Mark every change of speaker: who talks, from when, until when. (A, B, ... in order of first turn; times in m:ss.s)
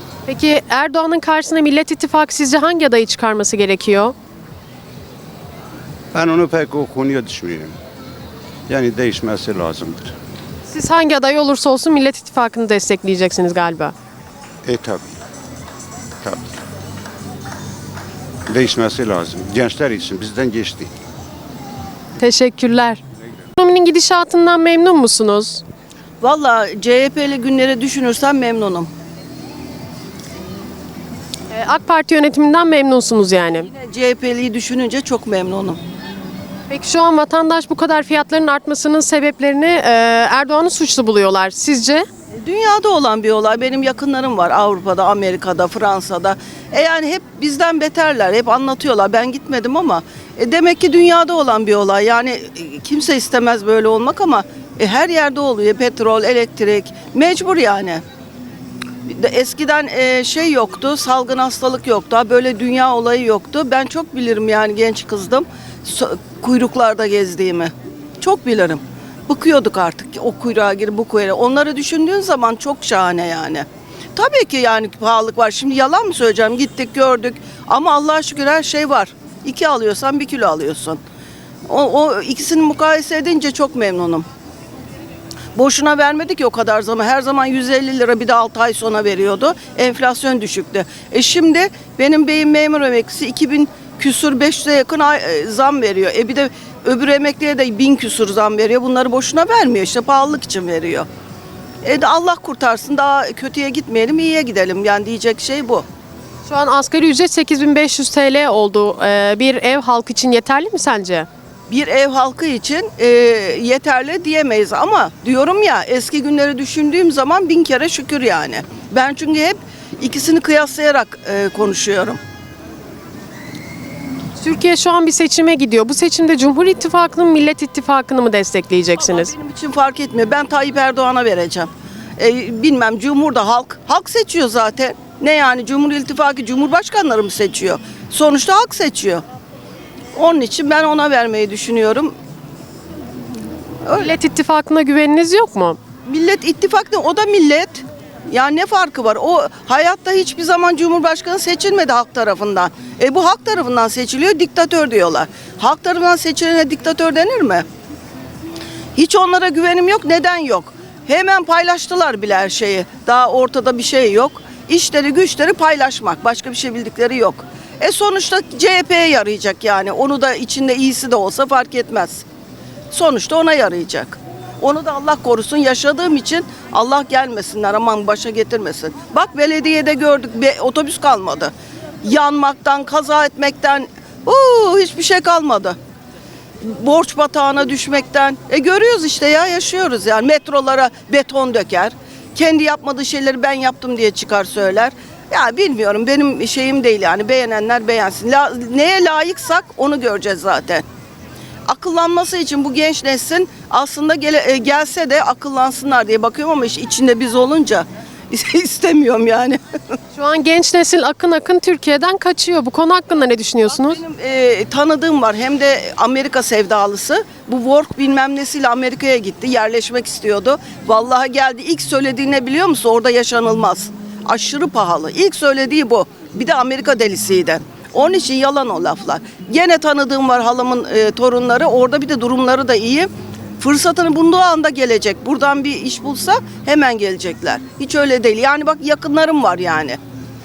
0:00.3-0:04.1 A
0:06.1-0:07.7 B
0:08.7-0:10.1 B
0:10.7-0:13.9 A
0:14.6-0:15.2 B
0:16.2-0:16.6 B
0:18.5-0:20.9 B
0:22.2-0:23.0 A
0:23.6-0:25.6 A
0:26.2-0:28.9 C
0:31.5-0:33.7 A
0:33.5-0:35.8 C
0:36.7-0:42.1 A
0:42.3-0:58.0 C
0:59.0-1:21.0 C
1:21.7-1:24.2 C
1:25.5-1:41.1 C
1:41.8-1:45.8 C
1:46.4-1:51.3 A
1:51.7-2:02.2 C
2:04.4-2:09.3 A
2:09.0-2:19.2 C
2:20.1-2:22.1 C
2:23.8-2:24.1 C
2:23.9-2:25.8 A
2:26.0-2:37.6 C
2:38.9-2:52.2 C
2:52.9-3:05.8 C
3:06.6-3:20.8 C
3:21.7-3:29.6 C
3:30.1-3:34.0 A
3:33.7-4:00.0 C